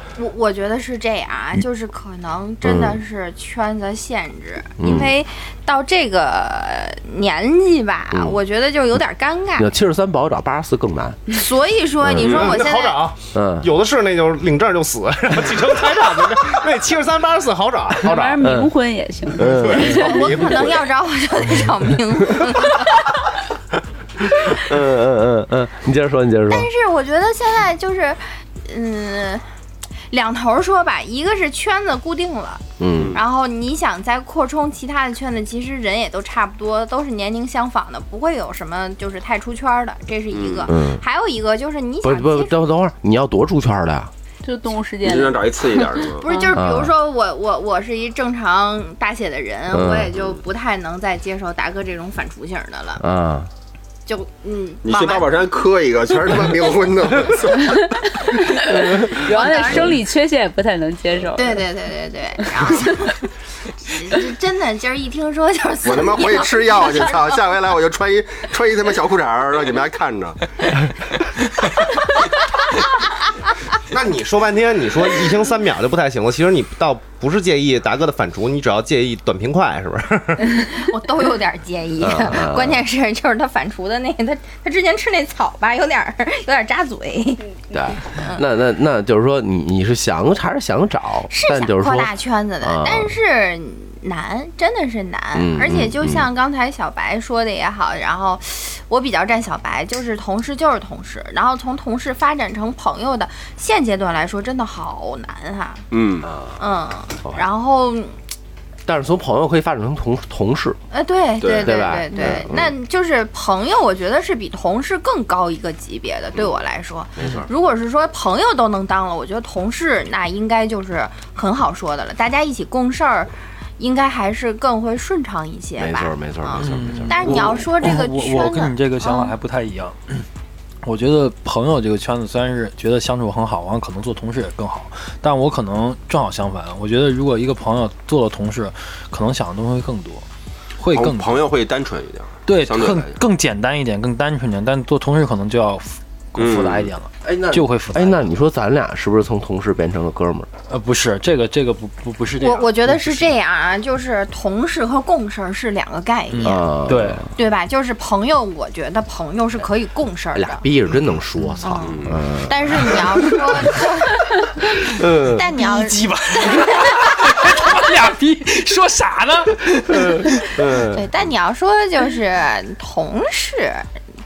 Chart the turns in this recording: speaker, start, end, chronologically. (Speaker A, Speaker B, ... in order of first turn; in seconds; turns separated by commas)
Speaker A: 0.2-9.7, Speaker B: 2.6-3.0, Speaker B: 4.8-5.1, Speaker B: 8.1-8.4, Speaker B: 9.6-11.2, Speaker A: 11.3-13.0, Speaker B: 12.0-12.4, Speaker C: 12.3-18.4, Speaker B: 13.3-13.7, Speaker D: 18.0-20.1, Speaker B: 18.4-18.7, Speaker B: 19.4-20.6, Speaker C: 19.4-20.8, Speaker A: 19.8-23.1, Speaker B: 24.5-26.7, Speaker A: 26.5-29.4, Speaker A: 30.1-42.5, Speaker B: 32.8-33.2, Speaker E: 40.3-40.7, Speaker B: 40.7-41.0, Speaker B: 42.0-44.1, Speaker D: 44.4-46.6, Speaker E: 45.0-46.2, Speaker A: 46.2-53.0, Speaker B: 46.5-46.9, Speaker B: 49.7-50.1, Speaker B: 53.0-53.5, Speaker A: 54.0-55.3, Speaker E: 54.8-58.0, Speaker D: 57.6-61.6, Speaker A: 59.0-60.0, Speaker A: 61.4-63.2, Speaker D: 62.6-62.9, Speaker A: 63.8-67.4, Speaker E: 65.8-70.7, Speaker C: 73.8-80.8, Speaker A: 80.7-88.4, Speaker B: 82.0-82.8, Speaker B: 87.7-93.1, Speaker A: 91.3-105.8, Speaker B: 95.3-96.3, Speaker E: 105.9-106.3, Speaker B: 106.3-106.5, Speaker A: 106.6-108.2, Speaker B: 108.8-110.8, Speaker A: 110.9-129.3, Speaker E: 111.4-111.8, Speaker B: 111.6-112.7, Speaker B: 117.2-117.5, Speaker B: 125.8-127.7, Speaker F: 126.6-130.3, Speaker F: 130.8-140.2, Speaker F: 140.8-141.4, Speaker E: 140.9-143.2, Speaker F: 142.4-148.3, Speaker E: 146.3-146.9, Speaker B: 147.2-150.5, Speaker F: 150.7-153.3, Speaker A: 152.4-156.8, Speaker F: 156.3-157.3, Speaker B: 156.4-157.3, Speaker A: 157.3-160.6, Speaker B: 160.3-163.3, Speaker A: 161.6-164.7, Speaker E: 161.8-162.2, Speaker F: 163.2-163.8, Speaker B: 165.0-165.5, Speaker A: 165.2-167.2, Speaker F: 165.5-170.6, Speaker B: 170.5-171.1, Speaker A: 170.8-173.9